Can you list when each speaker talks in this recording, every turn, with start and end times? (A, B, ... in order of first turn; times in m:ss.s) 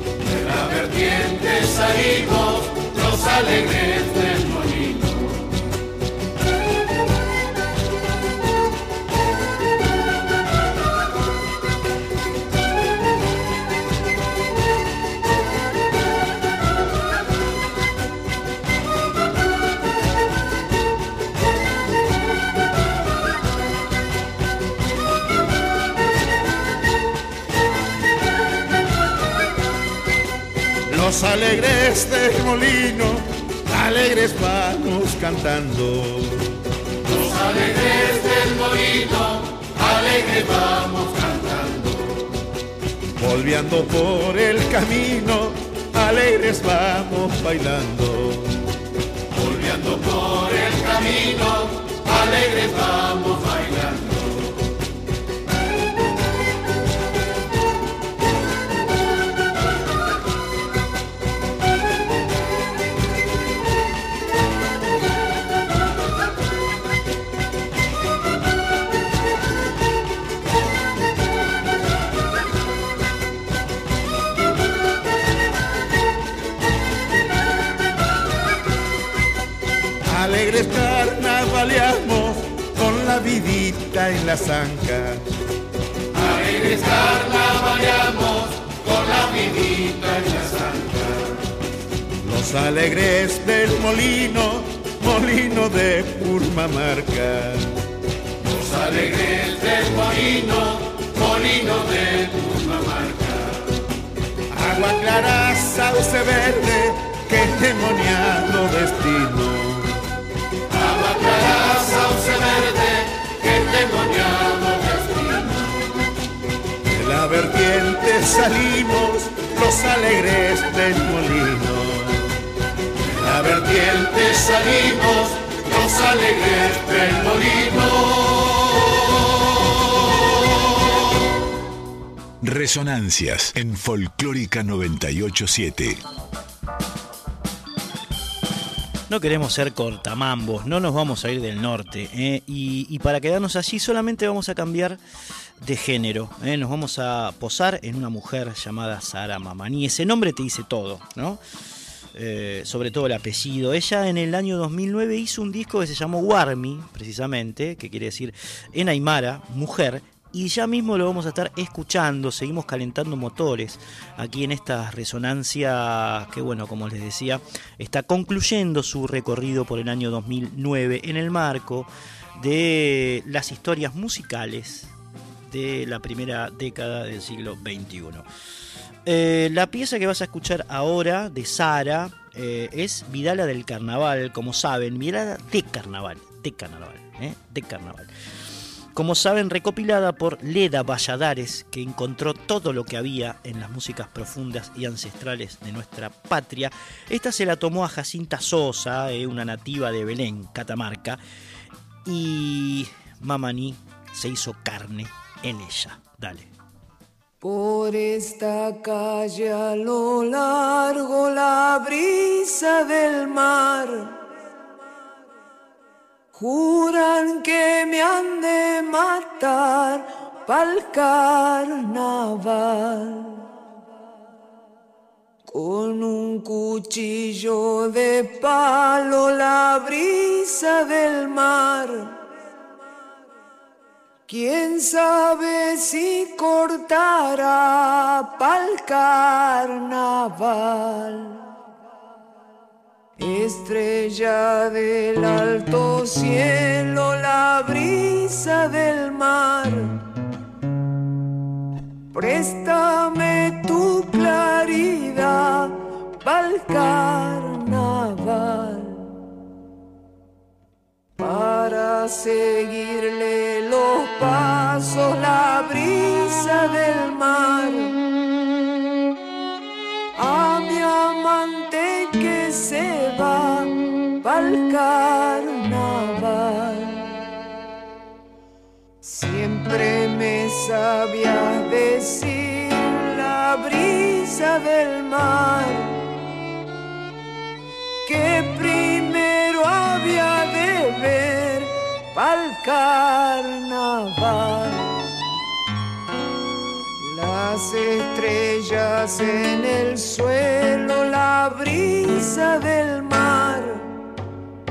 0:00.5-0:05.2 A
0:30.9-0:36.5 B
0:37.1-0:41.8 A
0:43.2-0:48.6 B
0:49.4-0:54.2 A
1:20.0-1:25.3 B
1:26.2-1:30.9 A
1:32.2-1:37.8 B
1:38.7-1:43.3 A
1:44.5-1:50.0 B
1:50.9-1:55.5 A
1:56.8-2:02.3 B
2:03.1-2:04.3 B
2:04.1-2:05.3 A
2:05.5-2:07.3 B
2:07.0-2:07.9 A
2:12.4-2:16.0 C
2:19.1-2:25.0 D
2:25.6-2:31.4 D
2:32.1-2:54.9 D
2:55.5-2:58.2 D
2:59.0-3:08.1 D
3:08.9-3:21.2 D
3:22.0-3:26.5 D
3:27.4-3:34.2 E
3:36.3-3:43.5 E
3:45.5-3:52.2 E
3:54.3-4:01.5 E
4:03.2-4:10.0 E
4:12.1-4:19.2 E
4:21.2-4:27.9 E
4:30.2-4:37.2 E
4:39.0-4:46.0 E
4:48.0-4:55.0 E
4:57.0-5:03.9 E